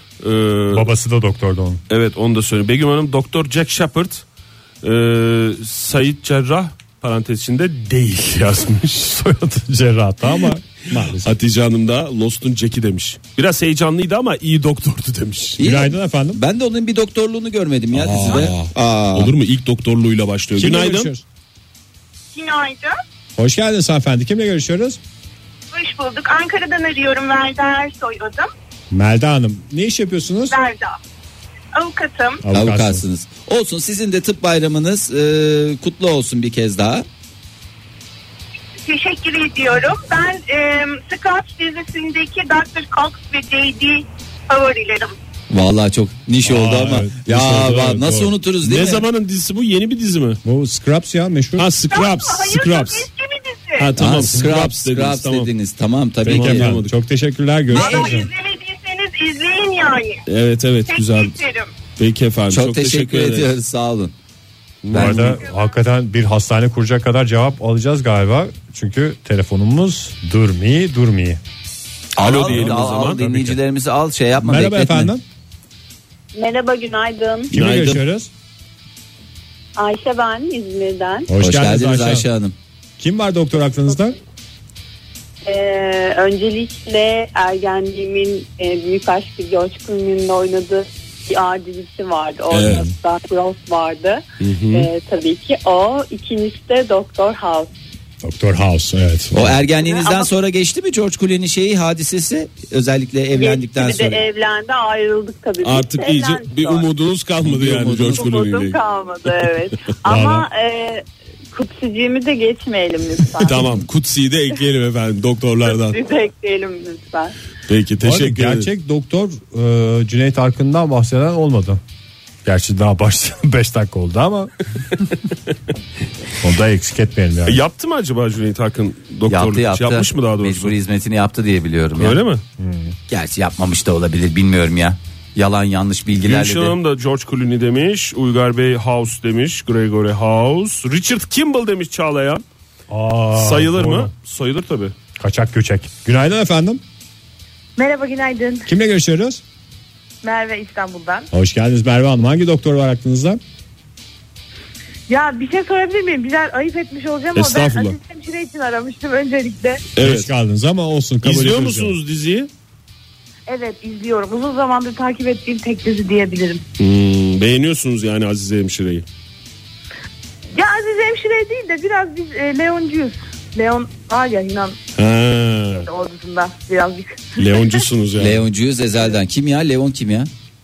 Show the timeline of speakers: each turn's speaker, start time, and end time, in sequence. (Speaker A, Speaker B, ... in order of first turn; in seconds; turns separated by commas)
Speaker A: 0.2-0.9, Speaker B: 0.7-1.8, Speaker A: 1.9-4.2, Speaker A: 4.8-9.3, Speaker B: 9.2-11.3, Speaker A: 10.9-15.6, Speaker C: 15.6-19.3, Speaker B: 15.6-16.4, Speaker B: 17.9-18.7, Speaker A: 18.2-18.5, Speaker A: 19.1-21.1, Speaker B: 20.6-21.2, Speaker D: 22.3-23.0, Speaker B: 23.4-25.0, Speaker D: 25.7-28.5, Speaker B: 28.9-30.6, Speaker D: 30.5-31.0, Speaker D: 31.7-32.4, Speaker B: 32.4-33.0, Speaker C: 32.5-37.0, Speaker D: 38.8-45.1, Speaker C: 45.5-49.0, Speaker B: 46.4-48.3, Speaker A: 47.6-48.1, Speaker A: 48.6-50.4, Speaker B: 50.4-51.7, Speaker A: 51.6-53.1, Speaker D: 51.9-53.9, Speaker A: 53.8-55.5, Speaker C: 54.0-56.7, Speaker A: 56.2-56.9, Speaker B: 56.2-58.3, Speaker D: 57.7-60.2, Speaker C: 57.7-58.3, Speaker A: 60.3-61.4, Speaker D: 60.9-61.7, Speaker A: 62.0-63.5, Speaker C: 62.5-64.1, Speaker A: 64.8-65.4, Speaker C: 64.9-65.2, Speaker B: 64.9-71.4, Speaker C: 72.2-75.1, Speaker A: 72.2-73.3, Speaker B: 72.5-73.5, Speaker B: 74.4-75.2, Speaker E: 76.3-77.5, Speaker B: 77.5-78.3, Speaker A: 77.5-78.0, Speaker E: 79.8-81.3, Speaker B: 81.3-82.2, Speaker C: 81.4-82.5, Speaker B: 83.0-84.2, Speaker E: 85.4-97.7, Speaker A: 92.5-92.8, Speaker A: 94.4-94.9, Speaker B: 98.2-99.6, Speaker C: 99.3-104.2, Speaker E: 103.3-106.9, Speaker A: 105.6-109.5, Speaker C: 107.5-108.2, Speaker E: 108.0-113.8, Speaker B: 110.0-110.5, Speaker A: 113.4-116.0, Speaker E: 115.6-117.3, Speaker A: 117.7-118.7, Speaker B: 118.0-121.8, Speaker B: 122.4-124.5, Speaker B: 126.4-127.6, Speaker A: 127.5-130.8, Speaker C: 129.3-132.2, Speaker A: 132.0-132.4, Speaker B: 132.6-132.9, Speaker C: 133.1-136.8, Speaker A: 136.2-142.4, Speaker B: 142.9-144.1, Speaker A: 143.3-144.9, Speaker B: 145.2-146.8, Speaker F: 147.8-148.7, Speaker B: 148.7-149.4, Speaker F: 150.2-151.3, Speaker B: 151.3-153.4, Speaker F: 155.1-159.8, Speaker A: 157.3-157.9, Speaker A: 159.9-160.3, Speaker B: 160.0-162.0, Speaker A: 161.2-162.5, Speaker F: 163.5-166.6, Speaker A: 166.8-169.0, Speaker F: 170.5-174.8, Speaker A: 175.0-175.9, Speaker F: 175.8-177.7, Speaker A: 177.4-178.4, Speaker C: 178.2-180.3